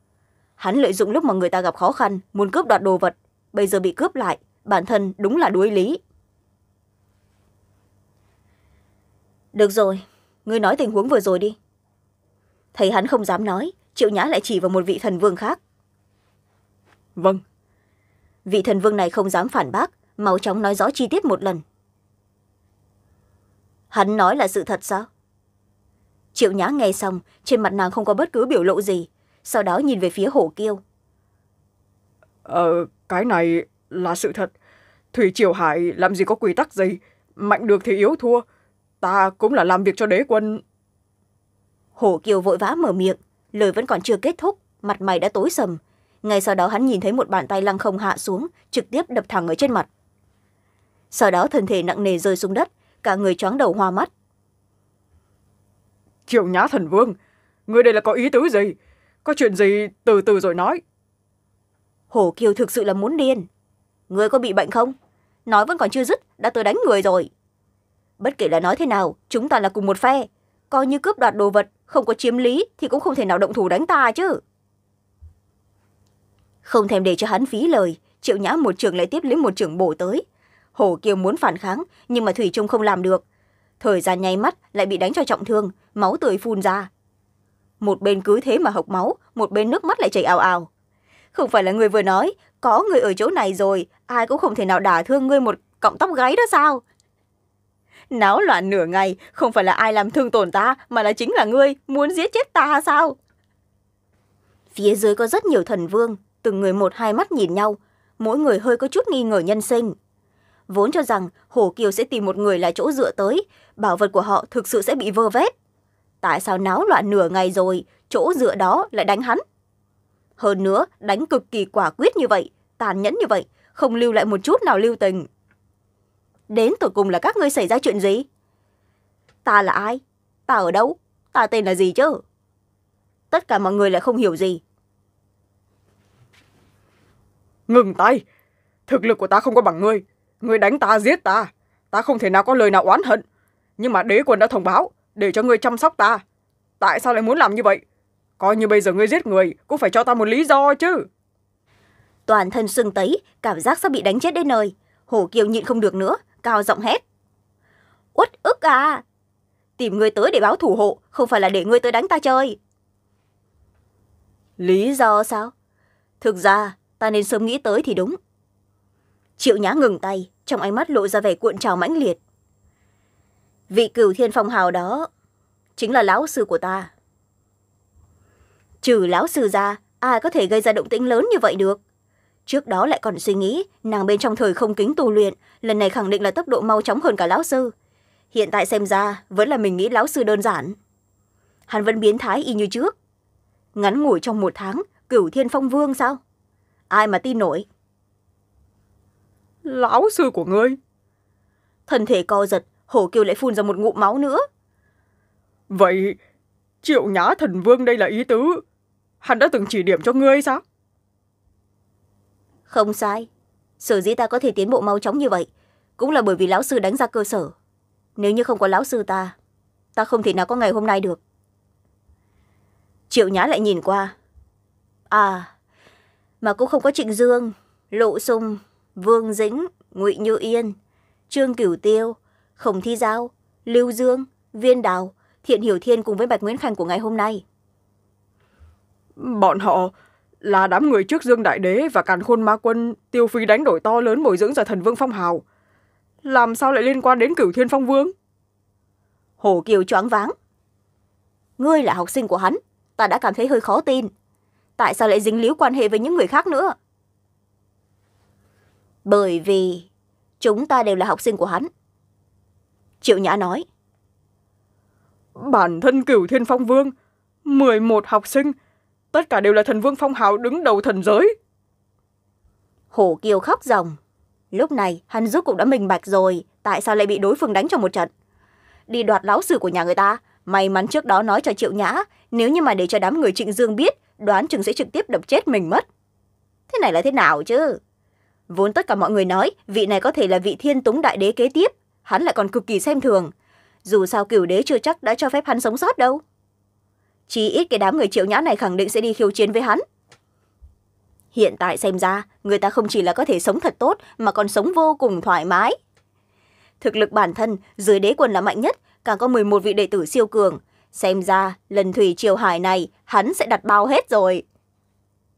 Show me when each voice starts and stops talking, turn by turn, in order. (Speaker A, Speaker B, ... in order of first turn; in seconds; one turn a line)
Speaker A: 0.6-6.0
Speaker A: 9.5-11.6
Speaker A: 12.7-15.6
Speaker A: 18.4-21.6
Speaker A: 23.9-25.1
Speaker A: 26.3-30.8
Speaker B: 32.4-34.5
Speaker B: 35.1-38.4
Speaker B: 39.0-40.6
Speaker A: 42.0-49.9
Speaker A: 51.1-54.1
Speaker B: 56.3-57.1
Speaker B: 57.7-60.8
Speaker A: 62.1-63.5
Speaker A: 64.1-64.9
Speaker A: 65.5-67.3
Speaker A: 68.2-74.4
Speaker A: 76.6-80.2
Speaker A: 80.7-83.2
Speaker A: 83.8-86.9
Speaker A: 87.8-90.7
Speaker A: 91.3-96.8
Speaker A: 98.1-103.2
Speaker A: 104.7-109.9
Speaker A: 110.7-115.5
Speaker A: 116.2-119.4
Speaker A: 120.4-125.3
Speaker A: 126.5-128.2
Speaker A: 129.4-132.2
Speaker A: 133.3-134.6
Speaker B: 137.7-138.2
Speaker B: 138.9-143.2
Speaker B: 143.8-146.2
Speaker B: 146.8-147.8
Speaker B: 148.4-151.1
Speaker A: 152.3-157.0
Speaker A: 158.1-159.0
Speaker A: 159.8-162.6
Speaker A: 164.6-165.5
Speaker A: 166.2-168.2
Speaker A: 169.4-172.2
Speaker A: 173.7-175.1
Speaker A: 175.8-176.9
Speaker A: 178.8-181.8
Speaker A: 182.4-187.7
Speaker A: 188.3-190.8
Speaker A: 191.7-192.9
Speaker A: 193.7-196.2
Speaker A: 196.9-197.7
Speaker B: 199.6-200.8
Speaker A: 201.9-204.4
Speaker B: 205.7-206.2
Speaker B: 206.8-208.6
Speaker B: 209.2-210.6
Speaker A: 212.7-213.3
Speaker A: 213.8-217.5
Speaker A: 218.2-219.3
Speaker A: 219.9-221.2
Speaker A: 223.1-224.1
Speaker A: 225.1-225.5
Speaker A: 226.4-230.7
Speaker A: 231.3-237.4
Speaker B: 239.2-245.4
Speaker B: 246.2-248.1
Speaker A: 249.4-250.3
Speaker A: 251.6-254.1
Speaker A: 254.8-256.7
Speaker A: 259.1-259.9
Speaker A: 260.4-261.7
Speaker A: 263.0-263.6
Speaker B: 265.3-266.9
Speaker B: 267.4-268.5
Speaker B: 269.1-271.3
Speaker A: 272.9-274.0
Speaker A: 274.5-278.1
Speaker A: 278.9-285.9
Speaker A: 286.7-287.8
Speaker A: 288.5-293.3
Speaker A: 293.8-296.2
Speaker A: 297.3-299.8
Speaker A: 301.3-305.8
Speaker A: 306.8-314.4